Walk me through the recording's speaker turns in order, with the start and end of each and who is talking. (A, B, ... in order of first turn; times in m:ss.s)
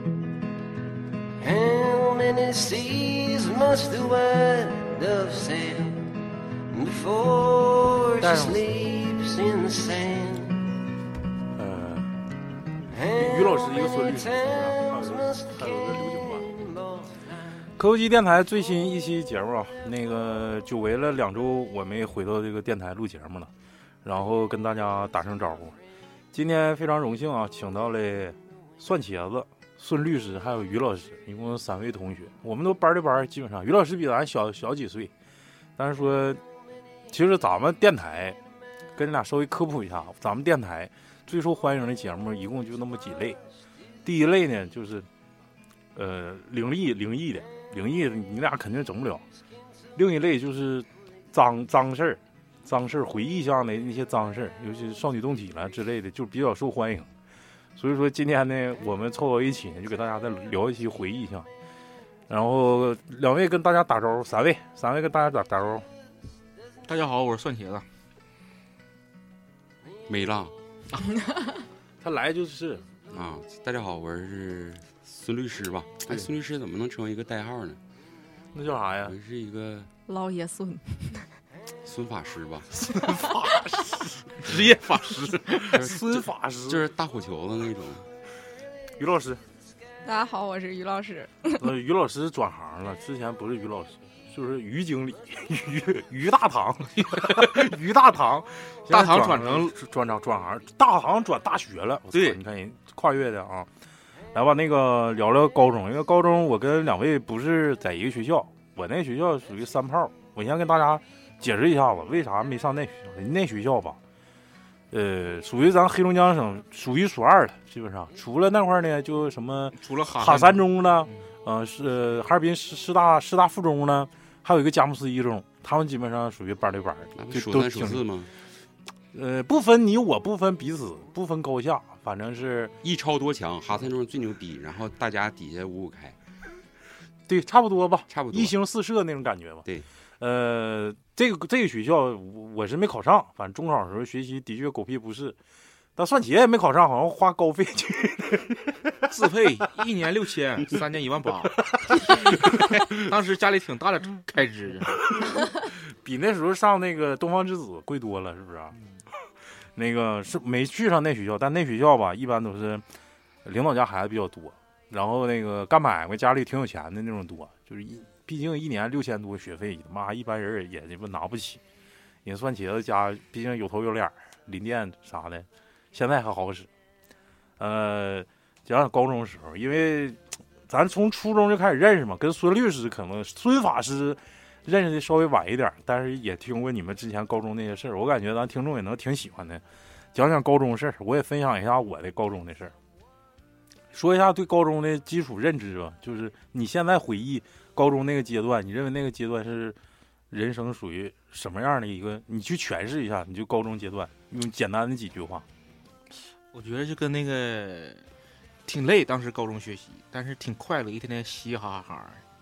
0:01.4-0:06.1 A
0:06.7-0:10.6 A
0:08.2-0:08.7 B
0:11.5-0:12.1 B
0:12.9-0:17.3 A
0:13.1-0:16.5 B
0:17.8-0:23.5 B
0:24.0-0:25.8 B
0:26.3-0:35.1 B
0:35.8-0:36.4 B
0:37.1-0:38.4 B
0:38.9-0:43.4 B
0:44.0-0:45.0 B
0:45.9-0:49.2 B
0:49.9-0:57.1 B
0:57.8-1:01.5 B
1:02.3-1:05.8 B
1:06.8-1:07.8 C
1:10.1-1:10.5 D
1:11.0-1:11.6 E
1:12.0-1:12.8 B
1:13.1-1:17.8 D
1:18.5-1:19.2 B
1:19.0-1:19.9 D
1:20.1-1:21.3 E
1:21.8-1:22.7 D
1:22.9-1:24.1 B
1:23.0-1:23.5 E
1:24.4-1:25.7 C
1:25.6-1:26.9 B
1:25.7-1:28.0 D
1:29.0-1:29.4 B
1:30.0-1:31.6 E
1:31.5-1:43.7 B
1:38.9-1:39.8 C
1:42.1-1:42.4 C
1:44.3-1:54.0 B
1:54.9-2:08.0 B
1:59.8-2:01.2 C
2:07.2-2:08.3 D
2:09.1-2:12.7 B
2:12.8-2:16.2 D
2:17.3-2:19.6 B
2:18.1-2:18.5 D
2:20.2-2:25.4 B
2:26.0-2:28.9 B
2:29.1-2:31.6 C
2:32.1-2:35.0 C
2:36.0-2:38.7 B
2:39.8-2:42.8 B
2:43.4-2:51.6 B
2:52.2-2:56.7 B
2:57.6-3:09.6 B
3:10.1-3:12.7 B
3:13.9-3:19.8 B
3:20.3-3:25.4 B
3:26.5-3:28.0 C
3:28.6-3:32.2 C